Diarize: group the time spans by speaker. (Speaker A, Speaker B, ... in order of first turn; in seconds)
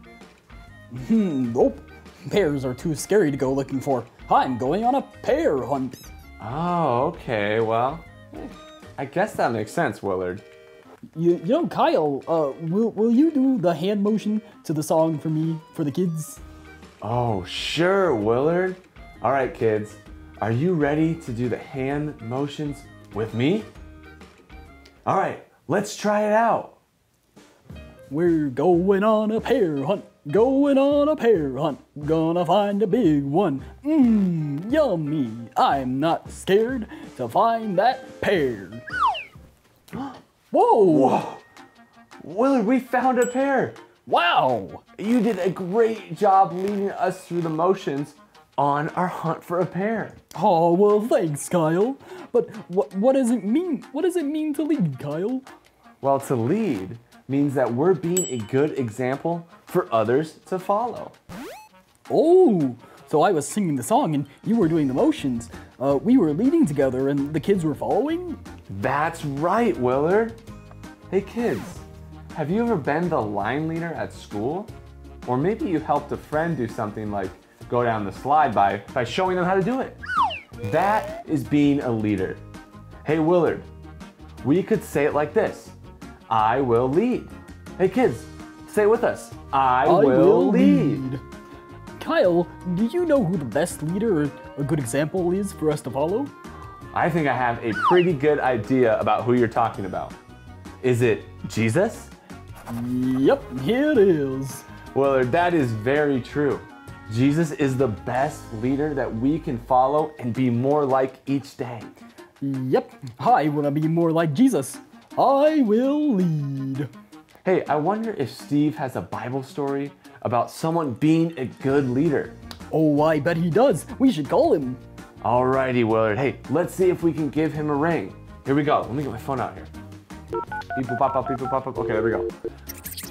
Speaker A: 0.9-6.0, 11.2-16.4, 28.1-38.8, 40.5-41.1, 44.1-44.8, 50.4-55.5, 62.1-68.4, 89.9-91.2, 92.0-96.3, 102.7-104.6, 112.4-116.9, 122.7-124.8
Speaker B: 6.4-10.4, 17.0-23.7, 25.1-26.8, 39.9-40.2, 40.8-41.4, 42.2-43.8, 45.0-50.2, 56.0-61.1, 68.7-70.4, 71.1-74.7, 75.2-80.0, 80.6-82.4, 83.0-83.7, 84.4-85.8, 86.3-91.1, 96.9-100.2, 100.8-102.1, 104.9-111.9, 117.4-122.4, 125.2-129.7, 130.7-132.3